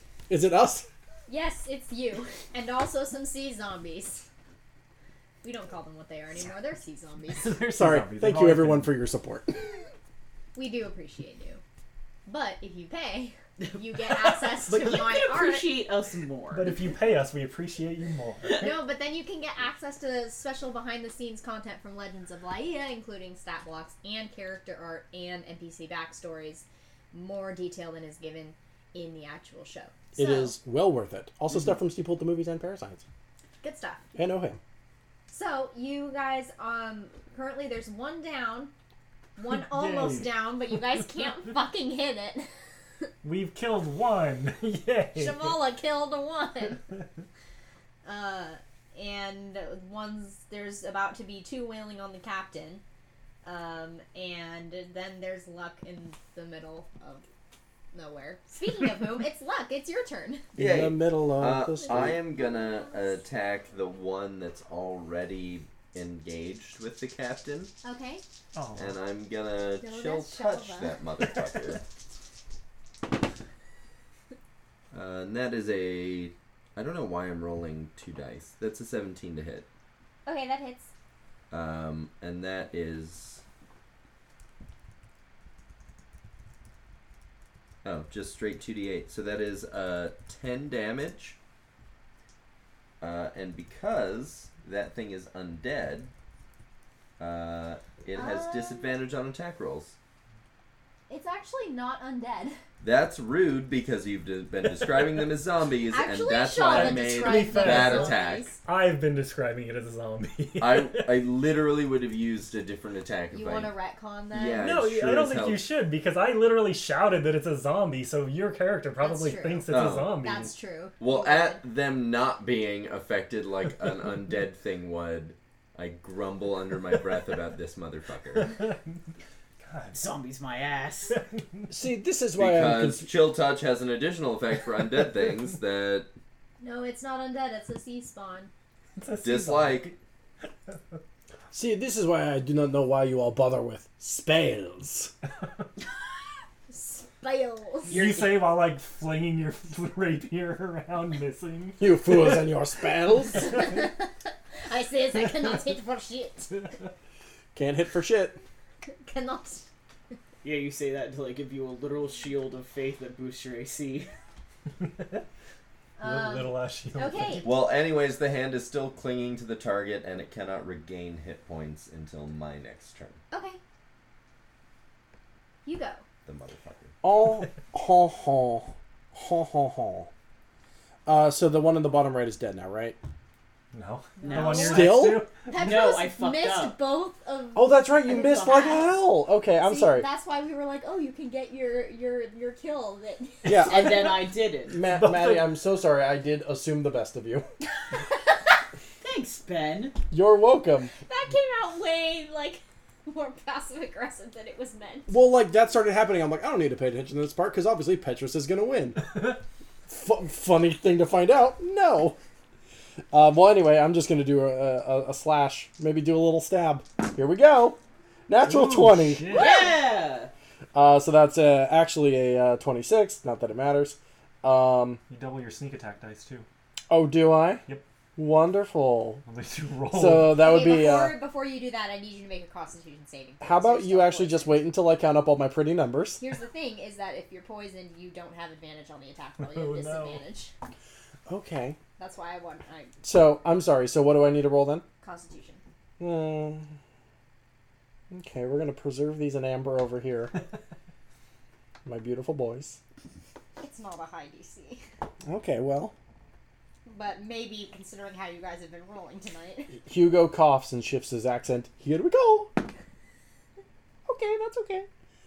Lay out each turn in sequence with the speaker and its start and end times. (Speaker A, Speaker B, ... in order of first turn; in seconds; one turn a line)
Speaker A: 0.3-0.9
Speaker B: 1.3-4.3
Speaker B: 5.4-7.6
Speaker C: 7.3-8.9
Speaker A: 7.7-9.8
Speaker B: 10.5-11.6
Speaker B: 12.2-15.7
Speaker D: 14.1-16.7
Speaker C: 16.5-18.7
Speaker B: 18.6-30.6
Speaker A: 30.1-33.0
Speaker B: 33.6-34.0
Speaker A: 34.1-34.6
Speaker B: 35.3-38.7
Speaker B: 39.4-42.5
Speaker C: 39.5-40.4
Speaker C: 43.2-45.6
Speaker B: 45.1-46.8
Speaker B: 48.0-52.8
Speaker B: 53.4-57.2
Speaker B: 57.9-60.4
Speaker A: 60.5-62.2
Speaker E: 60.6-67.7
Speaker B: 61.8-63.2
Speaker B: 67.8-68.2
Speaker C: 68.5-69.0
Speaker E: 68.8-71.8
Speaker B: 69.8-71.0
Speaker E: 74.9-79.7
Speaker B: 80.2-80.9
Speaker E: 81.5-83.4
Speaker E: 87.8-91.4
Speaker E: 93.0-96.1
Speaker E: 97.2-100.0
Speaker B: 98.1-99.0
Speaker B: 101.1-102.6
Speaker E: 102.8-108.5
Speaker B: 105.9-108.6
Speaker C: 106.7-111.2
Speaker E: 110.6-113.7
Speaker B: 113.3-114.6
Speaker E: 114.3-115.6
Speaker C: 114.6-120.5
Speaker B: 119.0-121.6
Speaker E: 119.7-120.3
Speaker E: 121.0-128.6
Speaker C: 129.6-130.0
Speaker D: 129.9-131.2
Speaker C: 131.2-131.6
Speaker A: 131.7-133.1
Speaker E: 132.4-136.1
Speaker B: 136.6-138.5
Speaker C: 138.9-139.9
Speaker E: 139.2-139.9
Speaker A: 141.5-145.1
Speaker B: 146.7-147.9
Speaker D: 147.9-148.5
Speaker C: 147.9-152.5
Speaker A: 151.8-153.5
Speaker B: 153.4-154.1
Speaker B: 154.7-156.7
Speaker A: 157.5-158.3
Speaker B: 158.9-159.7
Speaker D: 160.4-164.1
Speaker C: 164.8-165.2
Speaker B: 166.0-167.5
Speaker C: 166.0-167.6
Speaker E: 167.4-173.2
Speaker B: 173.3-173.6
Speaker B: 175.6-176.0
Speaker E: 176.2-176.9
Speaker A: 177.0-180.1
Speaker A: 181.1-183.0
Speaker C: 183.7-185.4
Speaker B: 184.2-189.0
Speaker D: 184.2-184.8
Speaker A: 184.6-185.3
Speaker D: 185.5-186.8
Speaker A: 187.5-190.1
Speaker B: 189.6-193.5
Speaker A: 193.4-197.5
Speaker D: 193.6-194.8
Speaker C: 194.8-195.5
Speaker D: 199.0-200.0
Speaker A: 200.1-200.9
Speaker B: 201.0-205.1
Speaker A: 205.1-209.1
Speaker A: 209.9-212.2
Speaker A: 213.1-219.5
Speaker C: 218.4-219.7
Speaker D: 219.3-220.3
Speaker B: 219.4-219.6
Speaker A: 220.7-225.0
Speaker C: 225.1-226.4
Speaker A: 226.9-227.6
Speaker A: 228.2-229.2
Speaker C: 229.2-230.4
Speaker A: 229.9-231.2
Speaker B: 230.3-234.7
Speaker A: 233.4-236.2
Speaker B: 236.2-240.5
Speaker C: 239.4-240.2
Speaker A: 241.3-241.8
Speaker B: 242.0-242.9
Speaker A: 243.0-244.8
Speaker B: 245.0-245.6
Speaker A: 246.0-246.7
Speaker A: 248.1-250.3
Speaker A: 251.8-252.8
Speaker B: 253.6-254.8
Speaker A: 255.2-255.9
Speaker B: 256.9-259.8
Speaker A: 259.7-262.6
Speaker A: 264.1-264.9